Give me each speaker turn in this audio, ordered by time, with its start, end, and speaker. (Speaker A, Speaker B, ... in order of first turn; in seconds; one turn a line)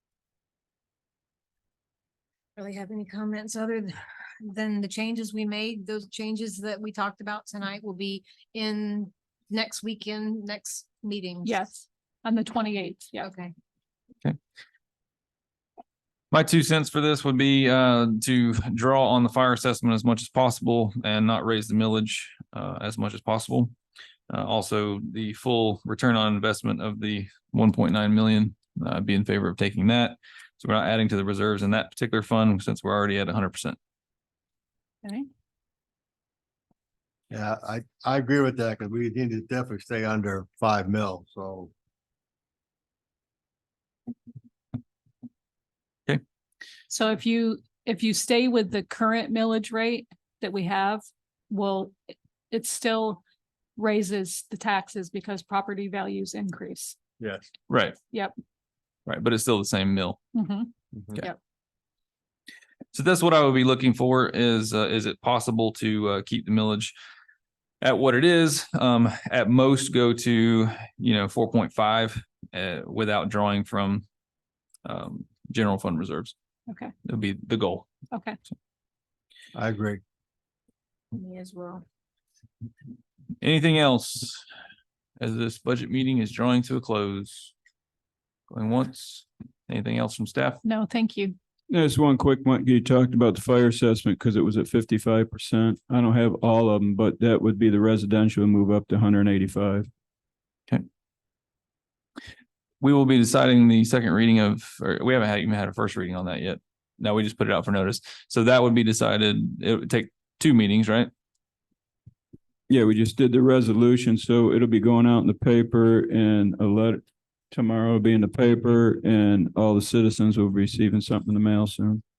Speaker A: 2.6-11.6
Speaker B: 11.4-13.3
Speaker A: 13.2-13.5
Speaker C: 16.3-23.7
Speaker C: 24.3-33.8
Speaker D: 37.3-41.7
Speaker B: 46.9-51.9
Speaker B: 52.5-53.2
Speaker B: 53.8-57.0
Speaker D: 57.2-57.5
Speaker C: 57.7-58.0
Speaker C: 59.1-60.2
Speaker B: 60.3-61.4
Speaker D: 61.0-61.2
Speaker C: 62.9-67.0
Speaker C: 67.8-74.0
Speaker C: 74.8-76.3
Speaker C: 77.0-77.9
Speaker B: 78.1-78.4
Speaker D: 79.5-80.0
Speaker B: 81.2-81.8
Speaker C: 83.4-84.4
Speaker C: 85.2-87.5
Speaker C: 88.5-90.6
Speaker B: 90.6-91.4
Speaker E: 91.7-99.9
Speaker C: 102.8-111.1
Speaker E: 112.7-122.0